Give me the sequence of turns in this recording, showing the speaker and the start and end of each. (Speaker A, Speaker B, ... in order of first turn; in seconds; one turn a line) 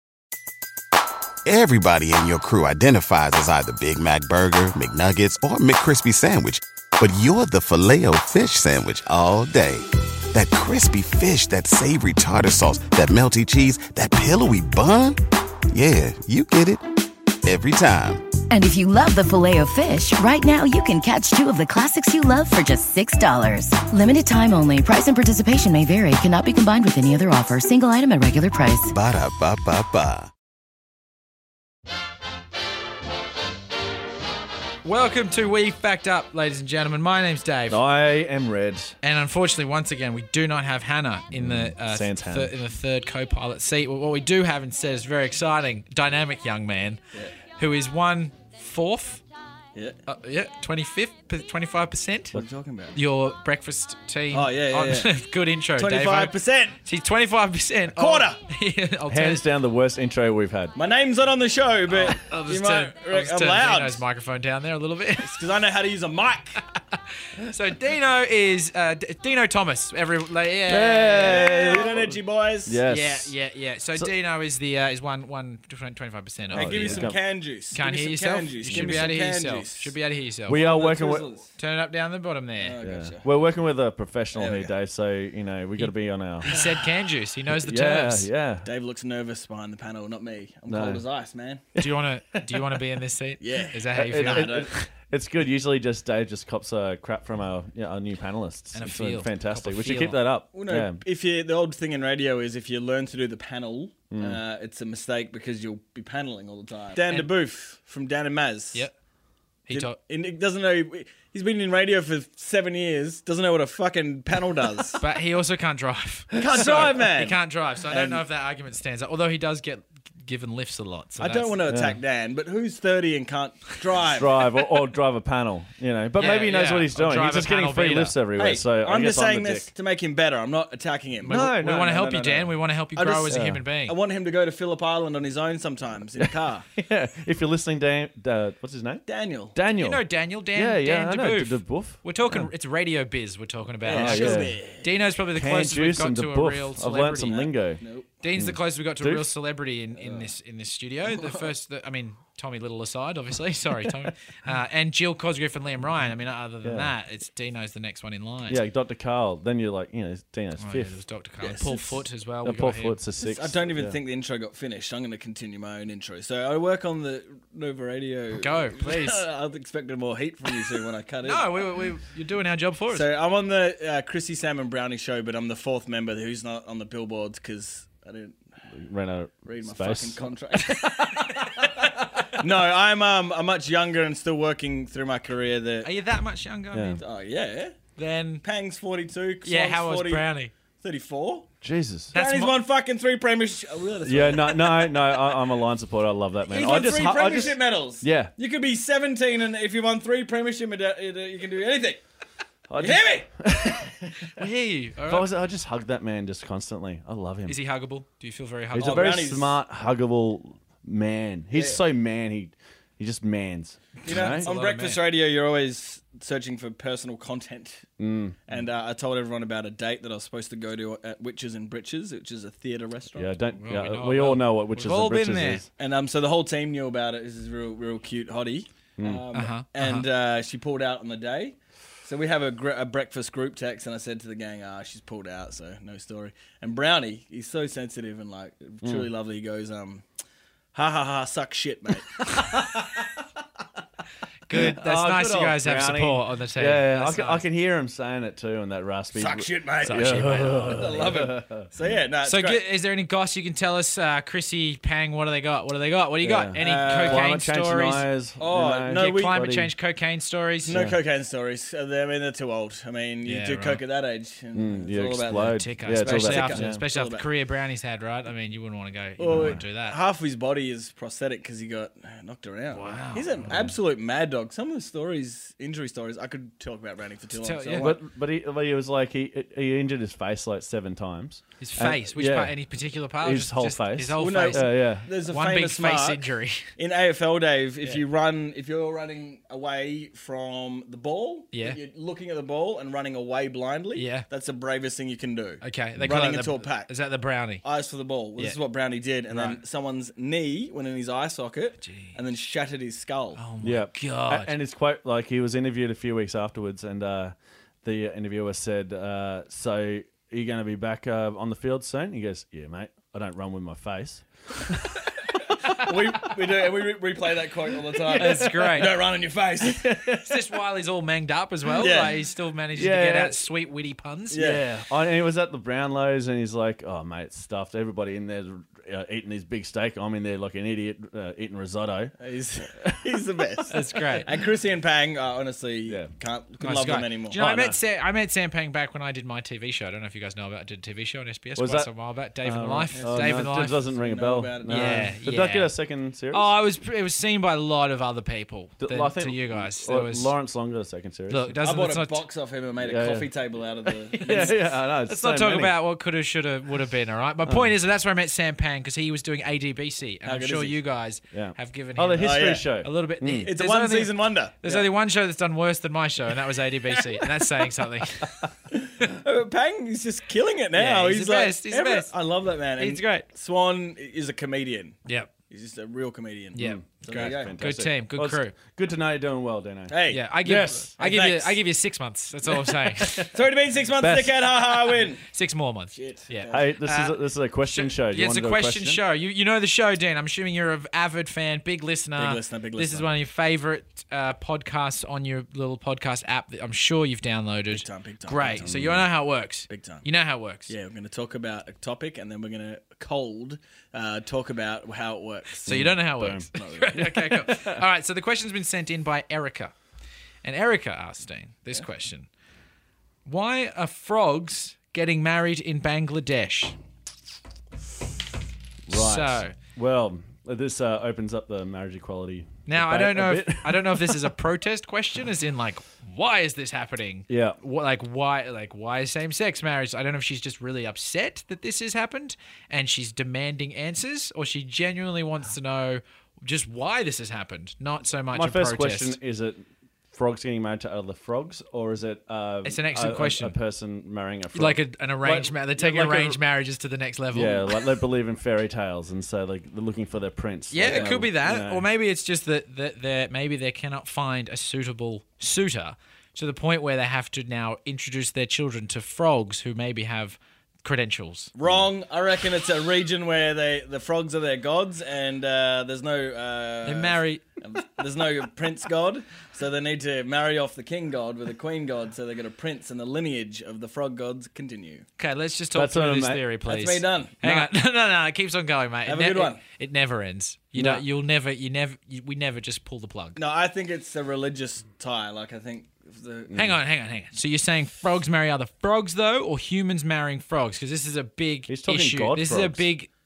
Speaker A: 1.4-15.2
Speaker A: 15.7-16.8
Speaker A: 17.4-18.4
Speaker B: 18.5-28.9
Speaker A: 28.9-30.3
Speaker C: 34.8-37.8
Speaker D: 37.7-39.0
Speaker C: 39.0-47.0
Speaker D: 41.3-42.5
Speaker C: 47.5-49.2
Speaker C: 50.1-52.4
Speaker E: 52.3-53.0
Speaker C: 52.9-59.5
Speaker E: 54.3-55.1
Speaker E: 55.8-56.8
Speaker E: 57.9-58.4
Speaker D: 59.1-60.8
Speaker E: 60.8-64.0
Speaker C: 61.9-65.4
Speaker E: 65.2-66.6
Speaker C: 66.8-71.6
Speaker D: 70.7-73.3
Speaker E: 71.1-72.8
Speaker C: 72.9-77.2
Speaker D: 76.5-77.2
Speaker E: 76.5-79.9
Speaker C: 77.7-80.7
Speaker D: 78.7-79.1
Speaker D: 80.5-81.3
Speaker E: 80.5-81.5
Speaker C: 81.6-82.8
Speaker E: 82.6-83.3
Speaker D: 82.8-86.5
Speaker E: 84.3-84.8
Speaker C: 85.8-88.3
Speaker E: 86.5-86.8
Speaker D: 87.5-88.7
Speaker E: 88.6-91.7
Speaker D: 90.7-91.0
Speaker C: 91.8-94.9
Speaker D: 92.5-92.8
Speaker E: 93.4-94.7
Speaker D: 93.9-101.0
Speaker C: 98.7-100.2
Speaker E: 100.5-108.9
Speaker D: 104.1-104.4
Speaker C: 107.0-107.3
Speaker C: 109.7-110.0
Speaker E: 109.7-115.0
Speaker C: 115.0-121.6
Speaker E: 116.3-118.2
Speaker E: 121.2-124.5
Speaker D: 121.7-122.0
Speaker D: 124.1-129.7
Speaker C: 126.2-128.2
Speaker E: 128.4-136.7
Speaker D: 131.2-132.1
Speaker C: 131.3-133.9
Speaker D: 133.3-133.6
Speaker D: 136.2-142.5
Speaker E: 139.1-139.6
Speaker C: 139.8-147.5
Speaker E: 143.8-144.9
Speaker D: 143.9-144.6
Speaker D: 145.3-147.8
Speaker E: 147.2-148.1
Speaker C: 148.2-158.6
Speaker D: 148.4-149.3
Speaker E: 150.0-150.3
Speaker E: 151.1-151.5
Speaker D: 156.6-156.9
Speaker D: 158.5-161.0
Speaker C: 160.6-163.0
Speaker E: 161.4-162.0
Speaker D: 162.4-164.0
Speaker E: 163.2-171.7
Speaker C: 168.3-169.2
Speaker C: 171.2-173.1
Speaker E: 172.9-178.4
Speaker D: 178.7-181.3
Speaker E: 179.4-185.9
Speaker C: 185.8-187.0
Speaker D: 186.7-187.0
Speaker E: 187.0-187.8
Speaker C: 188.0-188.4
Speaker E: 188.4-190.3
Speaker C: 189.4-190.5
Speaker E: 190.8-191.5
Speaker D: 191.6-192.2
Speaker C: 192.1-192.6
Speaker E: 192.1-195.3
Speaker D: 194.0-198.3
Speaker E: 196.5-202.0
Speaker D: 202.7-204.4
Speaker E: 202.8-203.3
Speaker C: 204.3-205.3
Speaker D: 205.1-207.6
Speaker C: 207.5-209.1
Speaker D: 208.7-214.5
Speaker E: 208.8-209.6
Speaker E: 214.0-217.9
Speaker C: 214.1-215.0
Speaker D: 218.0-218.4
Speaker E: 218.5-223.3
Speaker D: 223.1-225.7
Speaker C: 223.6-225.6
Speaker E: 225.8-240.0
Speaker D: 229.0-229.2
Speaker C: 229.3-230.1
Speaker D: 238.8-239.1
Speaker E: 240.7-242.3
Speaker D: 242.3-243.2
Speaker C: 244.5-247.4
Speaker D: 244.5-251.7
Speaker E: 249.1-252.6
Speaker C: 249.8-251.0
Speaker C: 252.2-258.1
Speaker D: 256.2-259.7
Speaker E: 256.6-257.3
Speaker E: 258.4-259.4
Speaker C: 258.9-260.8
Speaker E: 260.6-267.3
Speaker D: 260.7-261.0
Speaker C: 263.3-263.8
Speaker D: 264.5-266.8
Speaker C: 265.4-270.0
Speaker E: 269.2-278.0
Speaker D: 269.3-269.6
Speaker C: 272.7-273.6
Speaker C: 277.4-278.0
Speaker D: 277.8-282.6
Speaker C: 281.6-286.7
Speaker D: 283.2-285.1
Speaker E: 284.2-296.9
Speaker C: 291.5-291.8
Speaker C: 293.9-294.3
Speaker C: 295.6-297.6
Speaker E: 297.6-303.4
Speaker C: 301.8-302.2
Speaker C: 303.4-304.5
Speaker D: 303.6-315.0
Speaker E: 315.7-320.1
Speaker D: 315.9-316.3
Speaker D: 318.1-318.5
Speaker C: 318.1-319.0
Speaker D: 319.6-320.4
Speaker C: 320.2-324.4
Speaker E: 321.7-322.2
Speaker D: 322.7-323.4
Speaker E: 324.3-324.6
Speaker D: 324.3-332.1
Speaker E: 332.2-337.4
Speaker D: 332.8-334.0
Speaker C: 333.7-334.3
Speaker C: 336.6-343.8
Speaker D: 337.4-337.8
Speaker D: 341.6-341.9
Speaker D: 342.4-346.5
Speaker E: 342.9-345.1
Speaker C: 344.7-345.7
Speaker C: 346.3-350.3
Speaker D: 348.8-351.6
Speaker C: 351.3-352.2
Speaker E: 351.6-354.5
Speaker D: 352.8-353.3
Speaker D: 354.2-355.8
Speaker C: 354.2-354.5
Speaker C: 355.1-368.5
Speaker D: 357.4-357.7
Speaker E: 360.2-360.8
Speaker D: 361.3-363.5
Speaker E: 362.2-362.7
Speaker E: 363.4-364.9
Speaker E: 368.7-377.5
Speaker C: 370.8-372.1
Speaker C: 372.8-373.3
Speaker C: 375.1-375.3
Speaker C: 376.6-378.6
Speaker D: 376.6-380.9
Speaker E: 379.9-380.2
Speaker C: 380.1-383.3
Speaker E: 381.0-381.6
Speaker D: 382.5-383.3
Speaker E: 383.3-385.2
Speaker D: 383.9-385.0
Speaker C: 385.3-400.7
Speaker E: 385.9-386.6
Speaker D: 386.5-389.0
Speaker E: 392.2-393.1
Speaker E: 397.7-398.8
Speaker D: 398.6-399.1
Speaker E: 399.7-400.1
Speaker E: 400.7-405.8
Speaker C: 405.6-409.7
Speaker D: 405.7-407.8
Speaker E: 406.6-407.1
Speaker C: 410.4-412.3
Speaker C: 413.2-416.8
Speaker D: 418.9-424.3
Speaker C: 418.9-419.6
Speaker C: 422.7-439.2
Speaker D: 427.3-427.6
Speaker D: 438.3-446.4
Speaker C: 442.6-443.6
Speaker C: 444.5-447.8
Speaker D: 447.3-451.9
Speaker C: 450.7-461.5
Speaker E: 450.8-451.1
Speaker E: 461.6-475.1
Speaker C: 466.8-467.4
Speaker C: 475.2-483.4
Speaker D: 475.8-476.4
Speaker E: 476.6-477.6
Speaker E: 479.1-479.6
Speaker D: 480.8-481.0
Speaker E: 483.4-486.5
Speaker D: 486.5-486.8
Speaker C: 486.6-493.1
Speaker D: 491.7-492.9